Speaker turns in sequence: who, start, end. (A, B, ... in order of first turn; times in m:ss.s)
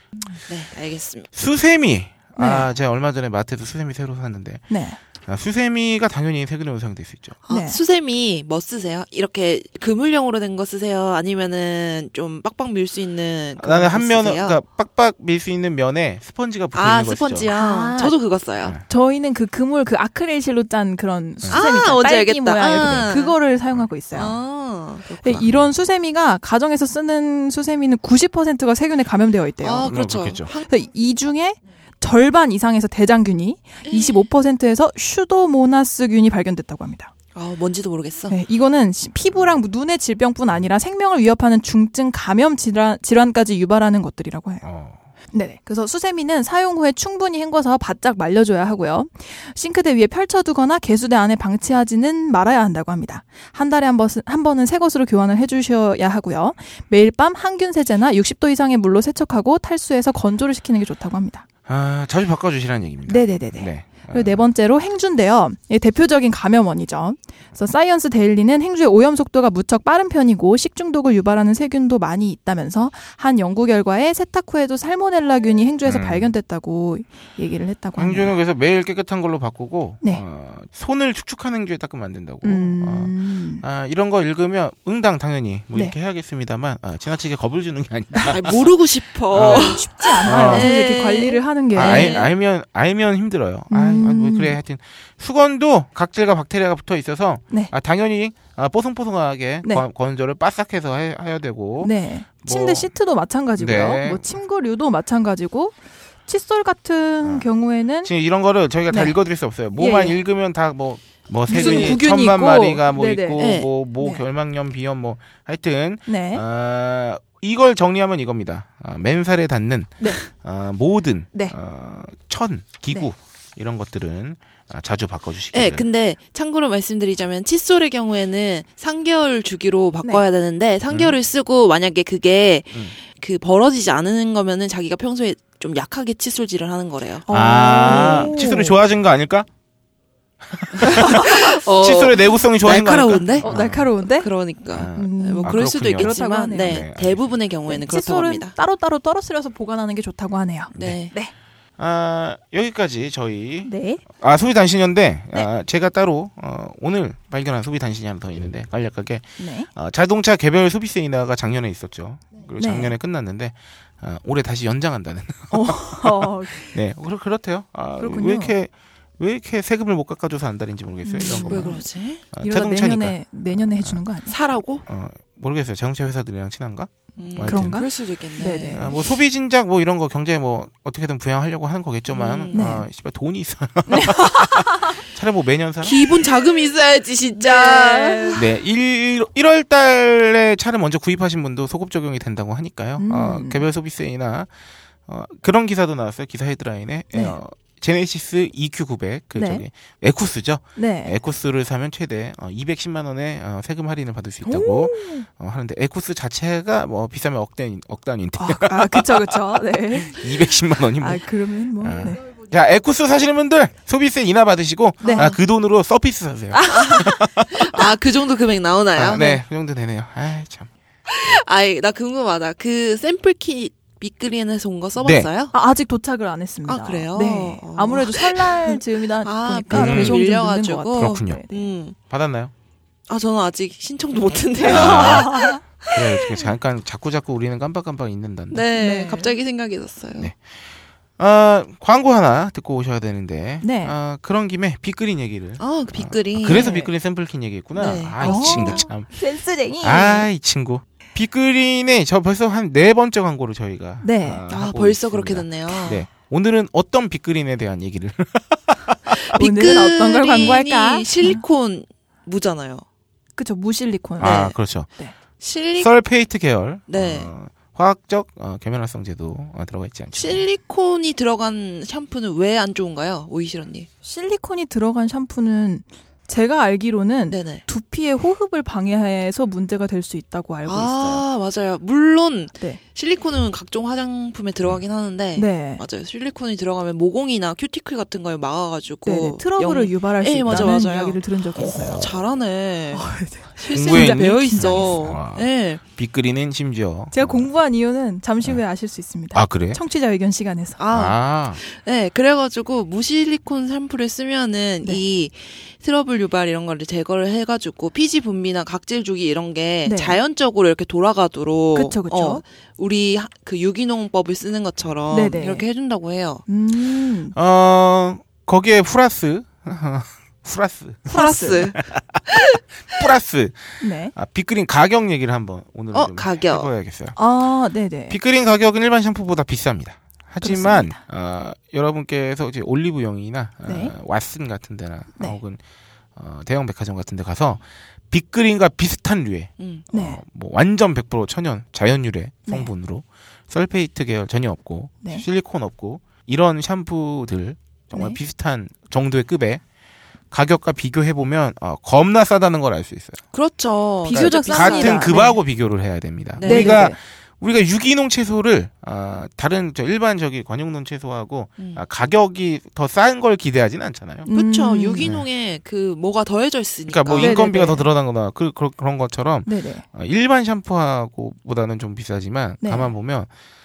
0:00.5-0:01.3 A
0:01.3-0:04.7 B
0:02.4-0:02.7 C
0:04.7-0:05.0 C
0:05.2-0:07.4 B
0:07.5-0:14.6 A
0:07.5-0:07.8 C
0:13.6-0:17.5 B
0:16.7-0:18.8 A
0:17.5-0:18.1 C
0:18.9-0:24.3 C
0:21.5-0:23.4 A
0:22.7-0:23.1 B
0:24.1-0:25.5 A
0:25.2-0:30.0 C
0:29.6-0:30.7 A
0:29.8-0:30.5 B
0:30.7-0:37.1 C
0:33.9-0:34.3 A
0:37.4-0:38.4 A
0:38.3-0:44.7 C
0:44.6-0:45.0 B
0:45.3-1:01.4 C
1:01.7-1:04.5 B
1:03.1-1:18.3 C
1:15.9-1:16.3 B
1:18.0-1:28.6 B
1:22.4-1:23.6 C
1:28.3-1:32.3 A
1:29.3-1:30.7 B
1:29.4-1:32.2 C
1:31.8-1:42.9 B
1:33.7-1:34.6 C
1:41.8-1:45.8 C
1:43.6-1:44.4 B
1:46.3-1:48.1 C
1:47.2-1:47.5 B
1:48.0-2:05.9 B
1:48.9-1:49.2 C
1:49.7-1:50.2 C
1:51.5-1:54.2 C
1:51.5-1:52.0 A
1:53.4-1:53.7 A
1:56.1-1:56.4 C
2:05.5-2:17.3 A
2:10.9-2:11.2 B
2:17.3-2:18.6 C
2:17.3-2:19.5 B
2:17.8-2:18.7 A
2:20.4-2:23.9 B
2:20.8-2:21.3 C
2:20.9-2:23.6 A
2:23.4-2:24.3 C
2:24.1-2:28.5 A
2:24.7-2:27.3 B
2:25.0-2:26.8 C
2:27.7-2:31.3 C
2:30.7-2:31.0 B
2:30.8-2:31.1 A
2:31.8-2:51.8 B
2:33.6-2:34.0 C
2:39.4-2:39.7 C
2:42.6-2:43.0 C
2:45.5-2:46.8 C
2:48.0-2:48.5 C
2:51.0-2:51.8 C
2:51.4-2:52.2 A
2:52.3-2:54.0 B
2:52.4-2:54.4 C
2:54.3-2:54.8 A
2:54.9-2:57.9 B
2:57.2-2:59.0 A
2:57.4-2:58.9 C
2:58.7-3:06.0 B
3:02.1-3:02.7 A
3:02.5-3:02.8 C
3:03.9-3:05.0 C
3:05.8-3:08.4 A
3:07.4-3:08.4 C
3:08.4-3:14.5 B
3:13.0-3:13.6 C
3:15.1-3:31.2 B
3:17.1-3:17.4 C
3:19.4-3:19.6 C
3:20.8-3:21.2 C
3:24.4-3:25.3 C
3:28.4-3:30.3 C
3:31.0-3:32.2 C
3:31.8-3:37.8 B
3:35.0-3:35.3 C
3:35.0-3:35.3 A
3:36.5-3:37.1 C
3:36.7-3:39.4 A
3:39.0-3:40.7 B
3:41.1-3:45.5 A
3:45.0-3:45.3 B
3:45.5-3:51.7 C
3:46.7-3:52.0 A
3:49.7-3:50.2 B
3:50.9-3:51.4 B
3:52.1-3:52.5 B
3:53.1-3:56.4 A
3:54.6-3:55.6 C
3:54.7-3:58.7 B
3:58.5-4:00.3 A
3:58.8-3:59.3 C
4:01.2-4:09.1 B
4:03.6-4:03.9 C
4:05.6-4:06.9 A
4:07.8-4:08.9 A
4:08.2-4:10.2 C
4:09.8-4:19.2 B
4:14.0-4:14.4 C
4:14.5-4:16.1 A
4:19.2-4:22.8 A
4:19.4-4:21.4 C
4:23.4-4:25.1 C
4:24.2-4:24.5 A
4:24.2-4:24.9 B
4:25.4-4:25.9 A
4:25.8-4:30.4 B
4:26.9-4:27.3 A
4:30.2-4:33.9 A
4:34.0-4:41.2 C
4:37.3-4:37.6 A
4:40.7-4:51.2 A
4:45.4-4:45.8 C
4:49.0-4:52.0 C
4:51.6-4:52.2 B
4:52.0-4:55.8 A
4:52.9-4:55.0 C
4:53.7-4:57.5 B
4:57.1-5:00.8 C
4:59.3-4:59.8 B
5:00.8-5:16.4 A
5:00.9-5:01.6 B
5:09.9-5:10.2 C
5:11.8-5:12.4 C
5:15.1-5:15.7 C
5:16.5-5:17.4 C
5:17.4-5:27.2 B
5:21.1-5:21.7 C
5:21.1-5:22.6 A
5:23.8-5:24.1 C
5:25.9-5:26.7 A
5:27.2-5:28.2 C
5:28.1-5:35.6 B
5:30.4-5:31.0 C
5:33.7-5:33.9 C
5:36.2-5:49.6 B
5:39.6-5:39.8 A
5:39.9-5:40.2 C
5:47.9-5:48.2 C
5:50.3-5:53.2 B
5:53.3-5:55.3 A
5:54.1-5:55.4 C
5:54.1-6:04.3 B
5:56.4-5:56.9 A
5:56.4-5:57.0 C
6:04.3-6:05.1 C
6:04.3-6:07.4 A
6:05.0-6:05.3 B
6:06.9-6:13.3 B
6:07.2-6:07.9 C
6:09.5-6:09.8 C
6:12.6-6:12.9 C